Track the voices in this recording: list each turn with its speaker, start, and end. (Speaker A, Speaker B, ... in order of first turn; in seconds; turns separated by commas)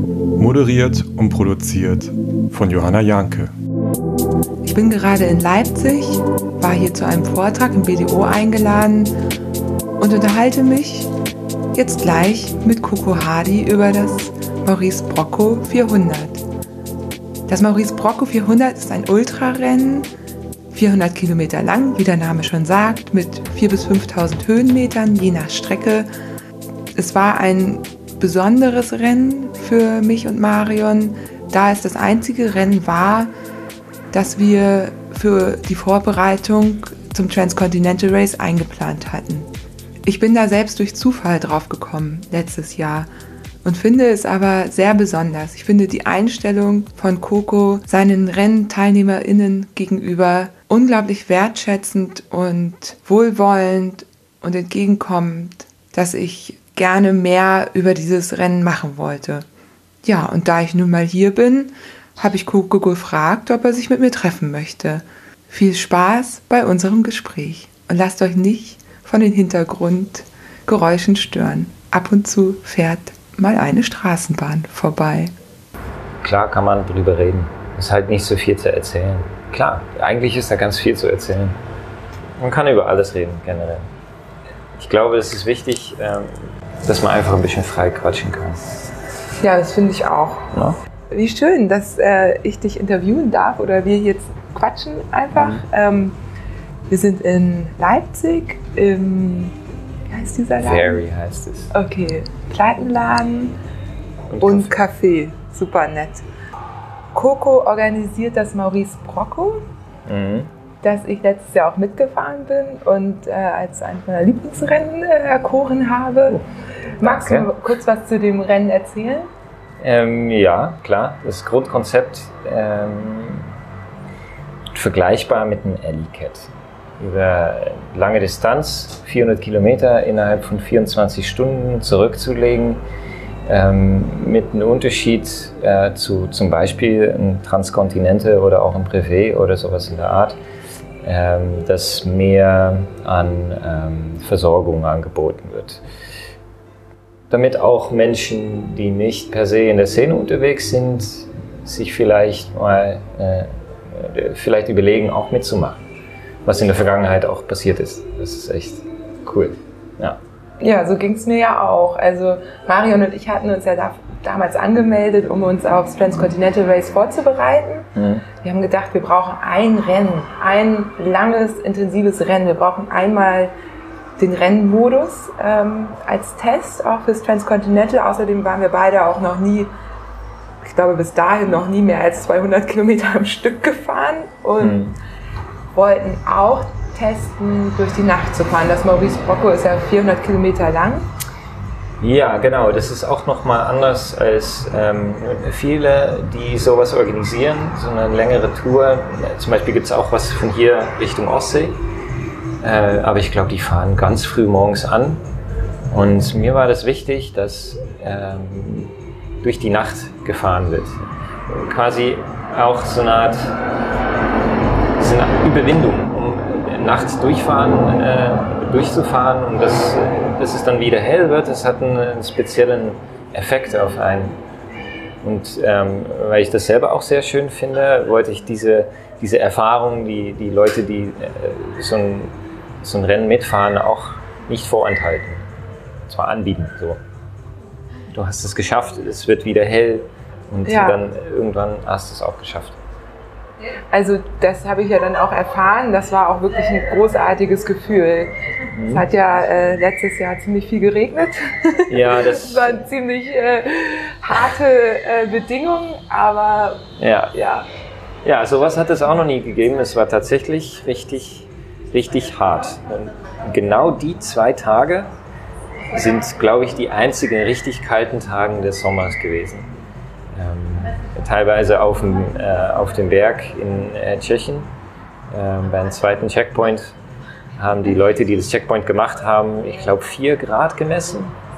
Speaker A: 0.4-3.5, Speaker B: 4.6-9.1, Speaker B: 10.0-11.1, Speaker B: 11.7-16.4, Speaker B: 17.5-20.1, Speaker B: 20.7-26.1, Speaker B: 26.9-33.3, Speaker B: 34.1-39.5, Speaker B: 40.1-43.1, Speaker B: 43.6-59.5, Speaker B: 60.0-75.3, Speaker C: 76.2-81.6, Speaker C: 82.4-83.9, Speaker C: 84.8-88.9, Speaker B: 89.4-90.5, Speaker C: 90.5-90.8, Speaker B: 91.1-96.2, Speaker C: 95.3-95.6, Speaker B: 96.9-99.6, Speaker B: 100.1-101.0, Speaker C: 100.6-101.7, Speaker B: 101.7-103.6, Speaker C: 104.3-104.8, Speaker B: 104.4-106.2, Speaker B: 107.1-109.6, Speaker C: 110.1-110.5, Speaker B: 110.8-116.4, Speaker B: 117.0-119.3, Speaker C: 117.0-117.5, Speaker C: 119.8-123.5, Speaker C: 124.7-132.8, Speaker C: 133.5-140.4, Speaker C: 141.0-145.8, Speaker C: 147.3-155.8, Speaker C: 156.4-160.2, Speaker B: 160.6-167.9, Speaker C: 168.0-168.2, Speaker B: 168.4-173.5, Speaker B: 174.2-179.7, Speaker B: 180.6-184.8, Speaker C: 184.6-185.0, Speaker B: 185.7-191.1, Speaker C: 192.0-201.8, Speaker C: 202.6-205.2, Speaker C: 205.9-213.6, Speaker C: 215.0-224.4, Speaker C: 225.2-235.5, Speaker C: 236.1-237.0, Speaker C: 238.1-242.8, Speaker B: 240.7-241.0, Speaker B: 243.9-248.3, Speaker C: 248.7-249.1, Speaker B: 248.9-257.7, Speaker C: 251.9-252.8, Speaker C: 257.0-257.3, Speaker C: 258.2-265.1, Speaker C: 265.9-269.7, Speaker C: 270.3-274.7, Speaker C: 275.3-276.9, Speaker C: 277.6-281.3